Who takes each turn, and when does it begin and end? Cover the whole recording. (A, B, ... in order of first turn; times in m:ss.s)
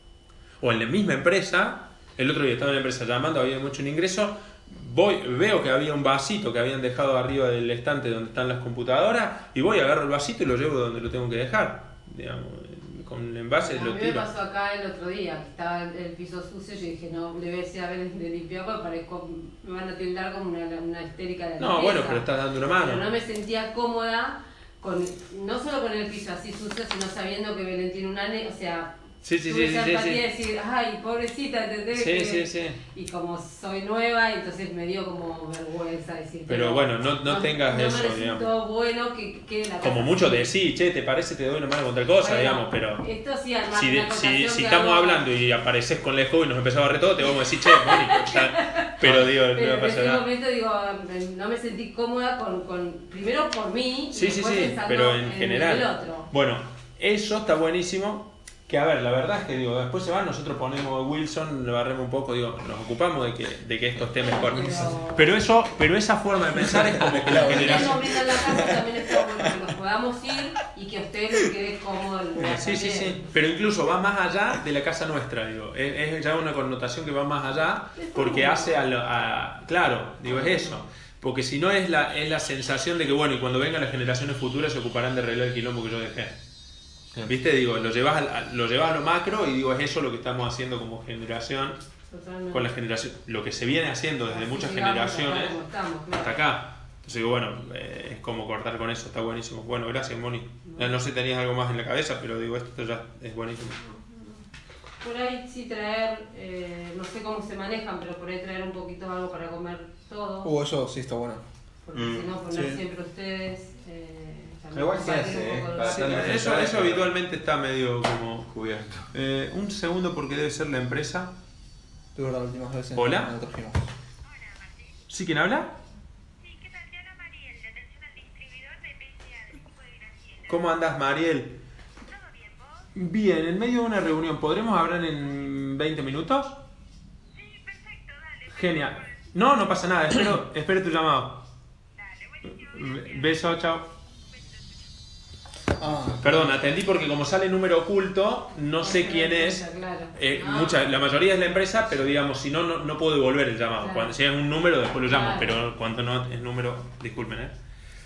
0:00.6-0:14.3 A
0:13.6-0:40.5 B
0:21.6-0:23.0 A
0:29.2-0:30.2 A
0:31.9-0:32.8 A
0:36.5-0:38.4 A
0:39.8-0:43.0 A
0:42.2-0:45.3 B
0:43.7-0:50.2 A
0:47.2-0:56.3 B
0:54.1-1:08.2 A
1:04.2-1:05.3 B
1:06.8-1:08.9 C
1:07.4-1:13.3 B
1:12.4-1:26.4 A
1:18.0-1:18.7 B
1:20.3-1:20.8 B
1:27.2-1:31.8 A
1:32.1-1:32.7 B
1:32.5-1:35.6 A
1:34.3-1:36.4 B
1:36.1-1:43.8 A
1:40.7-1:40.9 B
1:43.9-1:44.4 B
1:45.0-1:50.5 B
1:50.4-1:51.4 C
1:51.8-1:56.4 B
1:51.9-1:52.3 D
1:52.5-1:52.8 C
1:54.7-1:57.1 D
1:55.8-1:58.5 A
1:58.5-1:59.1 D
1:59.1-2:01.4 A
2:02.1-2:03.8 C
2:02.9-2:03.3 A
2:04.4-2:04.9 E
2:05.1-2:05.7 A
2:06.4-2:10.6 E
2:10.5-2:11.6 A
2:12.1-2:12.8 E
2:12.9-2:16.6 A
2:17.3-2:19.1 E
2:18.5-2:21.4 A
2:22.0-2:23.4 E
2:22.4-2:23.9 A
2:25.8-2:26.5 C
2:26.2-2:29.6 A
2:28.8-2:31.0 B
2:30.1-2:37.5 A
2:33.8-2:34.1 B
2:35.1-2:35.6 B